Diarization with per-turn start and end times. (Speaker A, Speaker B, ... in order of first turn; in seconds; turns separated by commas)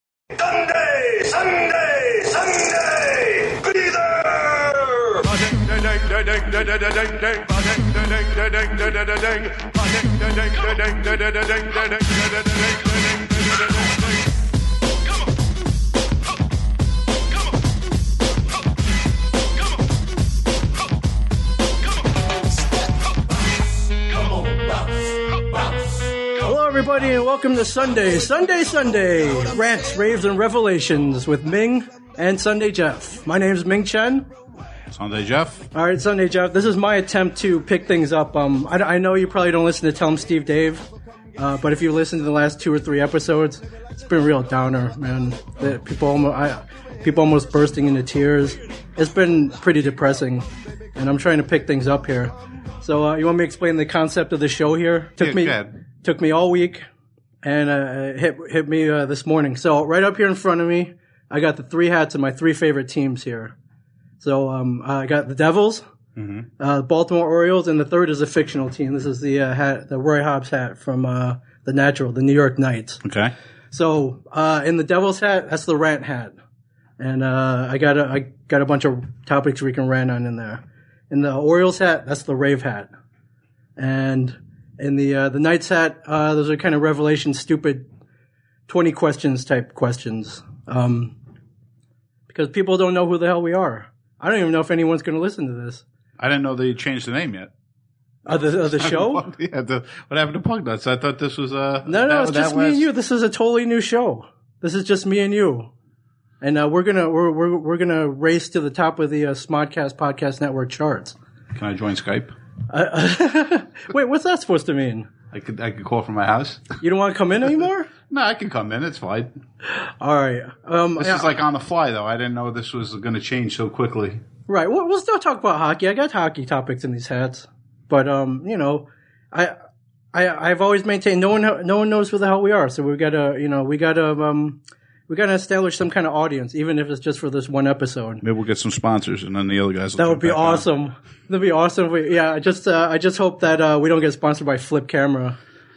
Speaker A: 0.7-2.3, Speaker A: 3.5-4.0, Speaker A: 5.5-6.5, Speaker B: 26.4-34.3, Speaker C: 34.9-35.7, Speaker B: 35.7-56.8, Speaker C: 55.2-55.7, Speaker B: 57.4-63.5, Speaker B: 64.2-65.8, Speaker C: 66.2-66.5, Speaker B: 66.6-73.0, Speaker C: 73.0-73.3, Speaker B: 73.7-76.4, Speaker B: 77.0-82.9, Speaker B: 83.8-87.8, Speaker B: 88.7-91.2, Speaker B: 92.3-95.8, Speaker C: 96.2-97.5, Speaker B: 98.3-99.3, Speaker C: 98.5-102.9, Speaker B: 101.9-105.7, Speaker B: 106.4-111.2, Speaker C: 111.5-112.3, Speaker B: 112.7-115.1, Speaker C: 115.3-116.8, Speaker B: 116.8-117.9, Speaker C: 118.1-119.3, Speaker B: 119.7-121.3, Speaker C: 121.0-124.2, Speaker B: 124.5-129.6, Speaker B: 130.1-138.2, Speaker C: 138.2-140.7, Speaker B: 140.0-145.4